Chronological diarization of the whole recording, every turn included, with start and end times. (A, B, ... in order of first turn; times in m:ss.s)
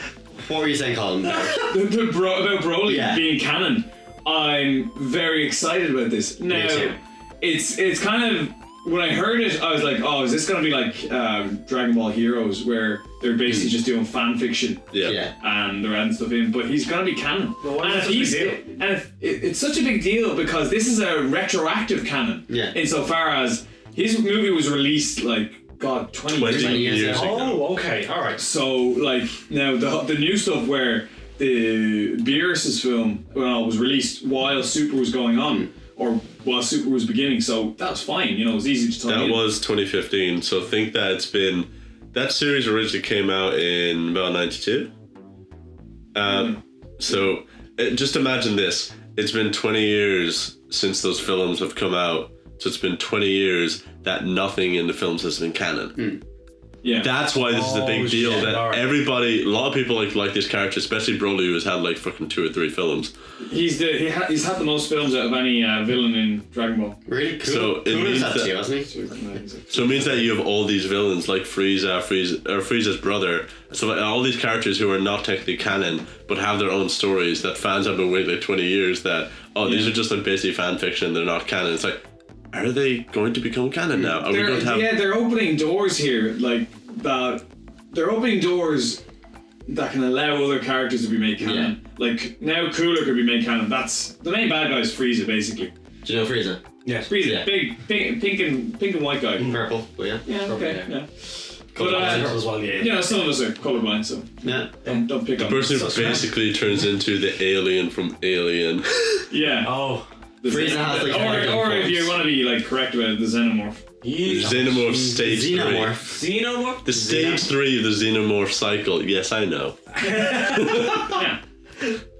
0:00.4-0:01.6 A
0:01.3-0:27.6 B
0:02.8-0:03.2 A
0:06.5-0:07.0 A
0:13.4-0:13.7 A
0:14.9-0:15.2 C
0:15.0-0:15.3 A
0:17.6-0:18.6 D
0:22.5-0:22.8 A
0:26.4-0:27.6 C
0:26.4-0:27.4 A
0:27.1-0:28.4 D
0:28.4-0:39.4 B
0:39.0-0:44.9 C
0:46.1-0:56.0 C
0:46.2-0:46.6 B
0:56.0-0:56.2 A
0:56.8-0:57.1 B
0:57.0-1:03.1 C
0:57.4-0:58.8 D
1:03.4-1:07.0 B
1:07.0-1:08.9 A
1:07.4-1:08.6 C
1:08.8-1:10.1 B
1:09.7-1:25.0 C
1:19.6-1:20.0 B
1:24.2-1:29.0 B
1:29.7-1:35.7 B
1:31.4-1:31.7 A
1:36.0-1:37.5 A
1:36.8-1:37.1 D
1:37.1-1:39.5 B
1:39.4-1:40.8 A
1:40.2-1:41.1 B
1:40.5-1:40.8 D
1:41.7-1:44.3 B
1:41.7-1:42.4 A
1:41.7-1:43.0 D
1:44.4-1:44.7 A
1:44.8-1:46.2 B
1:45.4-1:48.9 C
1:45.9-1:46.2 D
1:49.3-1:49.7 B
1:49.6-1:50.0 D
1:50.4-1:53.8 B
1:50.5-1:52.1 A
1:54.0-1:55.0 D
1:54.2-1:56.0 C
1:54.9-1:56.2 A
1:56.0-1:57.4 D
1:56.8-2:01.2 C
2:00.0-2:00.8 D